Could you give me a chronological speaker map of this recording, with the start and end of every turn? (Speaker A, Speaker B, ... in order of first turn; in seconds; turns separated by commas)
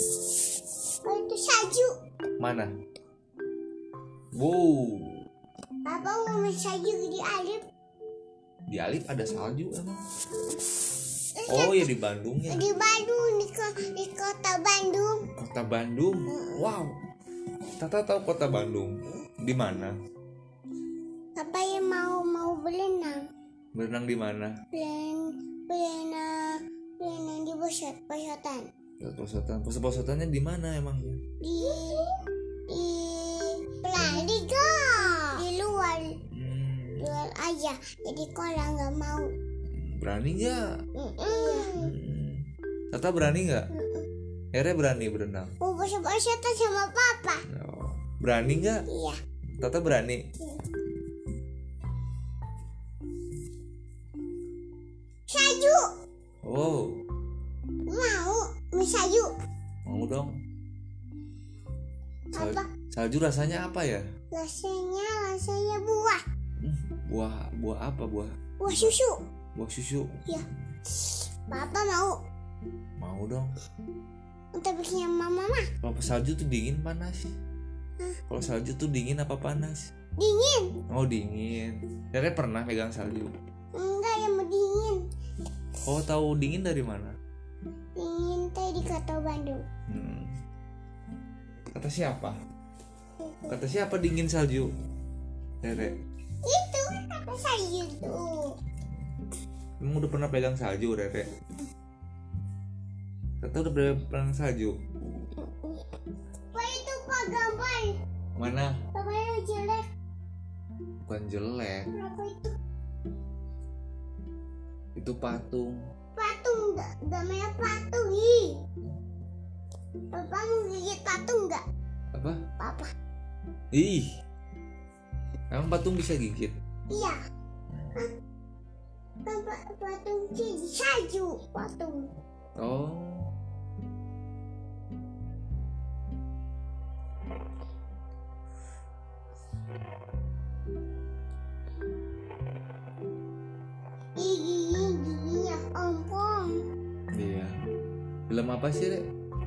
Speaker A: 1.0-2.0, Speaker B: 2.4-2.7, Speaker B: 4.3-5.2, Speaker A: 5.9-7.6, Speaker B: 8.7-10.0, Speaker A: 11.4-11.9, Speaker B: 11.5-12.7, Speaker A: 12.5-15.2, Speaker B: 15.4-16.9, Speaker A: 16.3-16.6, Speaker B: 17.8-19.9, Speaker A: 21.4-23.2, Speaker B: 23.8-24.6, Speaker A: 24.7-28.7, Speaker B: 29.0-31.2, Speaker A: 31.4-36.2, Speaker B: 36.3-37.1, Speaker A: 37.0-39.3, Speaker B: 39.8-40.6, Speaker A: 41.0-41.9, Speaker B: 41.5-43.7, Speaker A: 43.7-44.1, Speaker B: 44.5-45.5, Speaker A: 45.6-47.4, Speaker B: 47.5-48.9, Speaker A: 48.9-49.2, Speaker B: 49.6-50.2, Speaker A: 55.3-55.9, Speaker B: 56.4-56.9, Speaker A: 57.9-59.3, Speaker B: 59.9-60.3, Speaker A: 62.3-62.7, Speaker B: 62.3-64.0, Speaker A: 64.3-66.2, Speaker B: 66.6-69.0, Speaker A: 68.6-69.2, Speaker B: 69.6-70.2, Speaker A: 70.3-72.2, Speaker B: 73.0-73.5, Speaker A: 74.5-75.7, Speaker B: 75.8-77.3, Speaker B: 78.3-79.8, Speaker A: 80.2-80.7, Speaker B: 80.9-83.3, Speaker A: 83.7-85.0, Speaker B: 85.8-87.1, Speaker A: 88.0-89.6, Speaker B: 89.9-90.3, Speaker B: 91.7-92.4, Speaker B: 93.5-94.7, Speaker B: 95.6-96.0, Speaker A: 96.4-98.6, Speaker B: 99.8-101.3, Speaker B: 103.4-104.8, Speaker A: 105.4-105.8, Speaker A: 106.5-108.0, Speaker B: 108.4-108.8, Speaker A: 108.9-109.9, Speaker B: 111.1-111.9, Speaker A: 111.9-112.5, Speaker B: 115.0-115.8, Speaker A: 116.2-118.6, Speaker A: 120.1-121.6, Speaker B: 122.1-122.4, Speaker A: 122.6-122.9, Speaker B: 123.7-124.0, Speaker B: 125.5-126.5, Speaker A: 126.9-127.2, Speaker A: 129.2-132.1, Speaker B: 132.6-133.3, Speaker A: 144.2-146.6, Speaker B: 147.1-147.5, Speaker B: 148.3-149.0